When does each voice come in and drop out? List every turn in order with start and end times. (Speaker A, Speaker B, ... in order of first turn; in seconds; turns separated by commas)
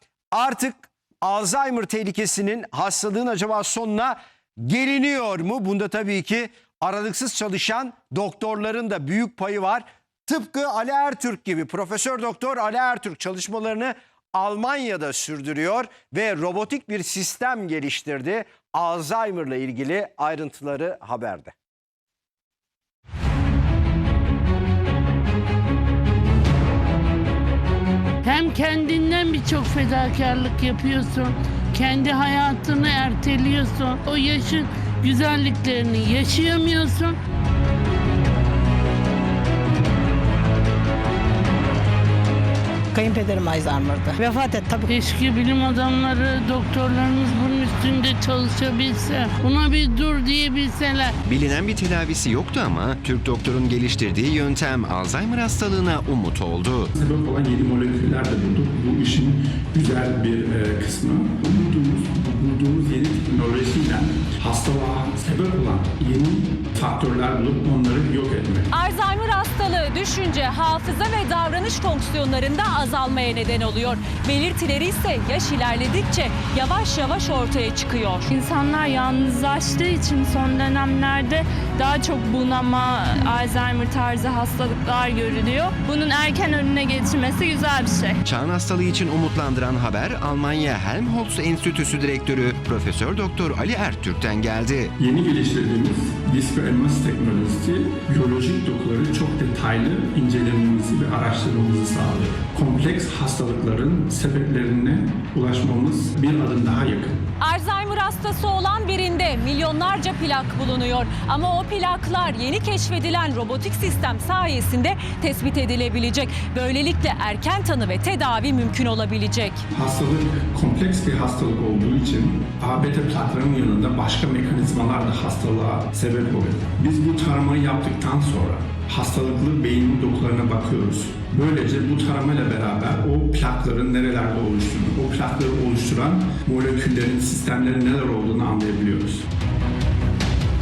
Speaker A: 0.3-21.5, Speaker B: 28.2-37.2, Speaker C: 42.9-44.9, Speaker B: 44.9-51.1, Speaker D: 51.3-56.9, Speaker E: 57.0-68.7, Speaker F: 68.7-78.3, Speaker G: 78.3-88.2, Speaker D: 88.2-94.9, Speaker E: 95.0-107.3, Speaker F: 107.4-119.6, Speaker E: 119.7-139.3